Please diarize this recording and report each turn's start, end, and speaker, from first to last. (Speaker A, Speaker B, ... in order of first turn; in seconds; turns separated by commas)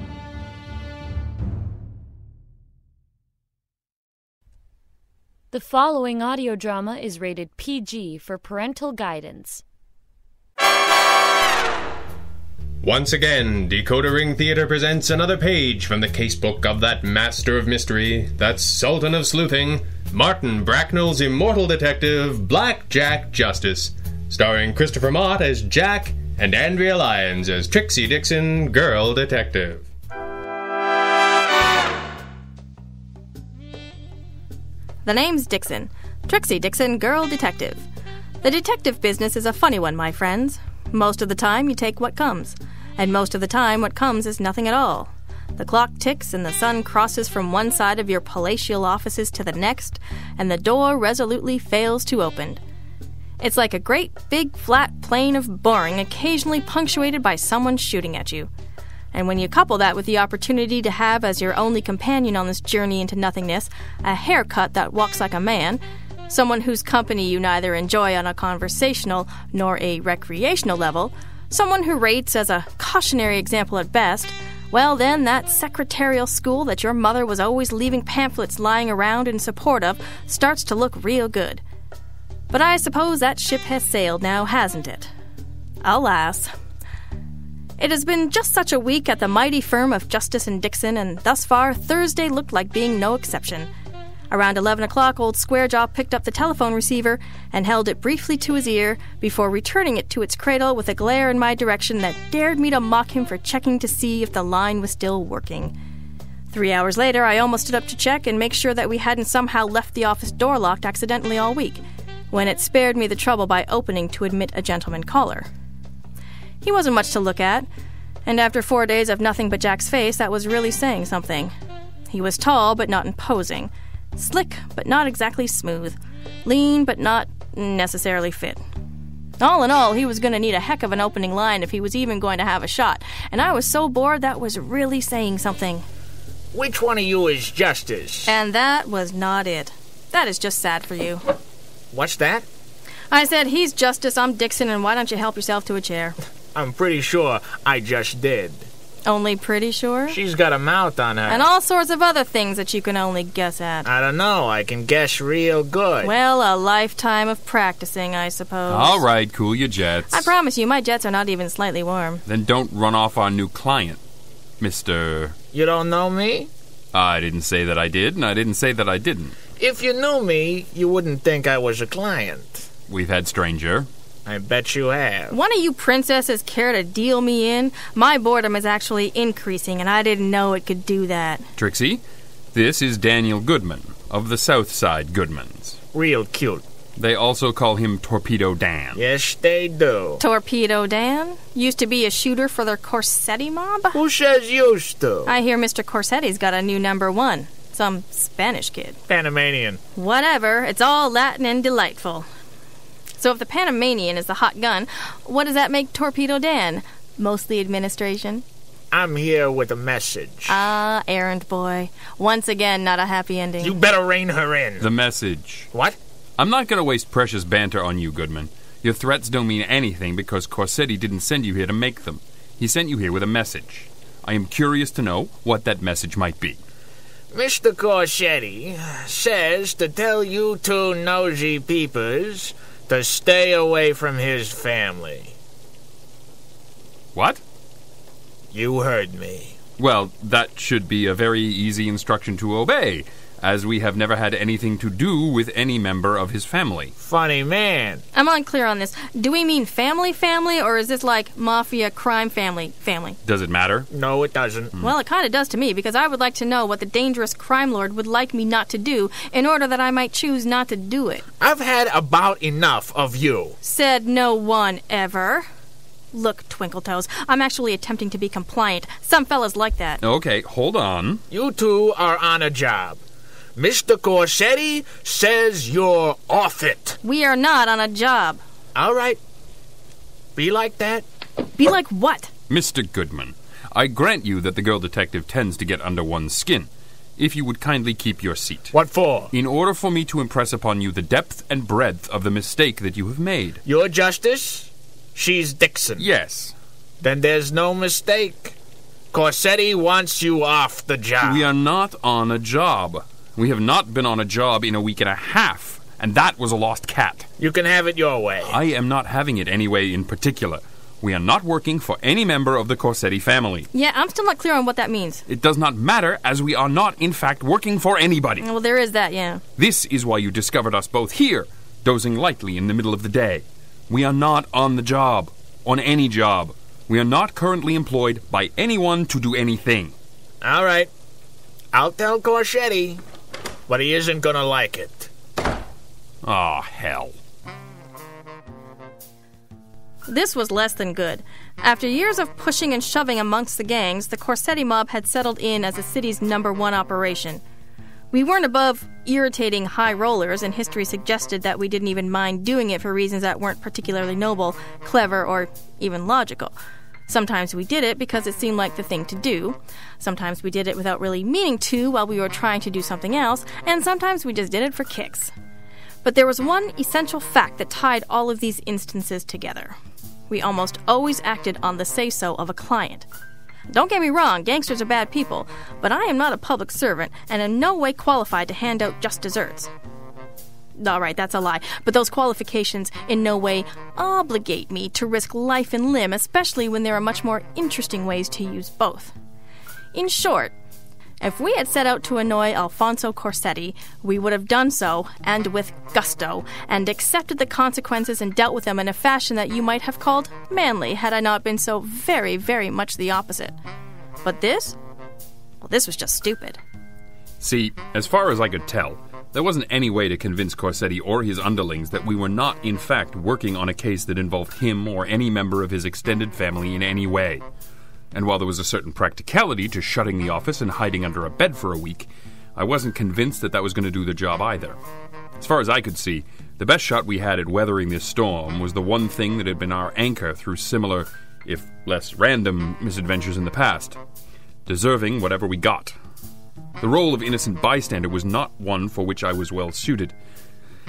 Speaker A: 5.5-9.6, Speaker B: 12.8-29.9, Speaker C: 35.0-37.8, Speaker C: 38.4-52.6, Speaker C: 53.4-58.5, Speaker C: 59.1-81.6, Speaker C: 82.5-85.1, Speaker C: 85.8-86.5, Speaker C: 87.8-93.7, Speaker C: 94.3-105.7, Speaker C: 106.5-115.5, Speaker C: 116.6-117.7, Speaker C: 118.3-121.5, Speaker C: 122.1-128.6, Speaker C: 129.4-135.8, Speaker D: 136.5-138.4, Speaker C: 138.2-141.2, Speaker D: 141.9-142.4, Speaker C: 143.1-146.2, Speaker D: 146.5-148.7, Speaker C: 149.1-150.2, Speaker D: 150.1-151.5, Speaker C: 151.3-153.9, Speaker D: 153.8-156.1, Speaker C: 156.0-159.0, Speaker E: 158.7-160.3, Speaker C: 160.1-162.2, Speaker E: 162.3-164.0, Speaker E: 164.6-165.3, Speaker D: 165.5-166.5, Speaker E: 166.9-169.4, Speaker D: 169.6-172.7, Speaker E: 172.9-173.9, Speaker D: 174.2-175.3, Speaker C: 175.3-181.4, Speaker E: 181.6-182.0, Speaker E: 182.5-185.8, Speaker D: 185.9-186.6, Speaker E: 187.0-189.0, Speaker D: 188.9-190.2, Speaker C: 190.2-194.0, Speaker D: 193.9-195.3, Speaker C: 195.2-199.0, Speaker D: 199.1-199.8, Speaker C: 199.9-202.3, Speaker C: 203.2-208.4, Speaker D: 208.9-210.6, Speaker C: 210.5-213.8, Speaker D: 213.6-214.9, Speaker E: 214.8-215.7, Speaker D: 215.7-216.0, Speaker E: 216.4-226.6, Speaker D: 227.3-235.3, Speaker E: 237.1-237.4, Speaker D: 238.5-239.6, Speaker E: 239.8-246.9, Speaker D: 247.0-248.0, Speaker C: 248.1-253.2, Speaker E: 253.2-253.9, Speaker D: 253.9-254.8, Speaker C: 254.8-261.2, Speaker D: 261.4-263.6, Speaker C: 263.6-265.4, Speaker C: 266.1-270.0, Speaker E: 270.0-271.2, Speaker D: 271.3-273.0, Speaker D: 273.6-277.0, Speaker C: 277.0-278.4, Speaker D: 278.8-279.2, Speaker D: 280.4-281.1, Speaker C: 281.6-282.3, Speaker E: 282.5-288.8, Speaker D: 288.7-289.3, Speaker E: 289.3-293.6, Speaker D: 293.6-296.1, Speaker E: 296.0-296.6, Speaker D: 297.0-298.6, Speaker D: 299.1-301.5, Speaker E: 301.2-307.3, Speaker D: 307.4-308.6, Speaker E: 308.4-313.7, Speaker C: 313.7-315.2, Speaker E: 315.3-318.5, Speaker C: 318.4-319.4, Speaker E: 319.6-329.9, Speaker D: 330.4-330.9, Speaker D: 331.7-333.0, Speaker D: 333.7-335.1, Speaker E: 336.2-337.1, Speaker C: 340.1-347.4, Speaker C: 348.1-356.6, Speaker C: 357.1-365.3, Speaker C: 366.0-369.8, Speaker C: 370.3-373.1, Speaker C: 373.7-379.7, Speaker C: 380.8-389.1, Speaker C: 389.9-390.5, Speaker C: 391.2-403.6, Speaker C: 404.2-404.8, Speaker C: 405.6-406.6, Speaker E: 407.4-417.4, Speaker E: 418.1-424.8, Speaker E: 425.4-434.0, Speaker E: 434.6-435.9, Speaker E: 436.8-440.1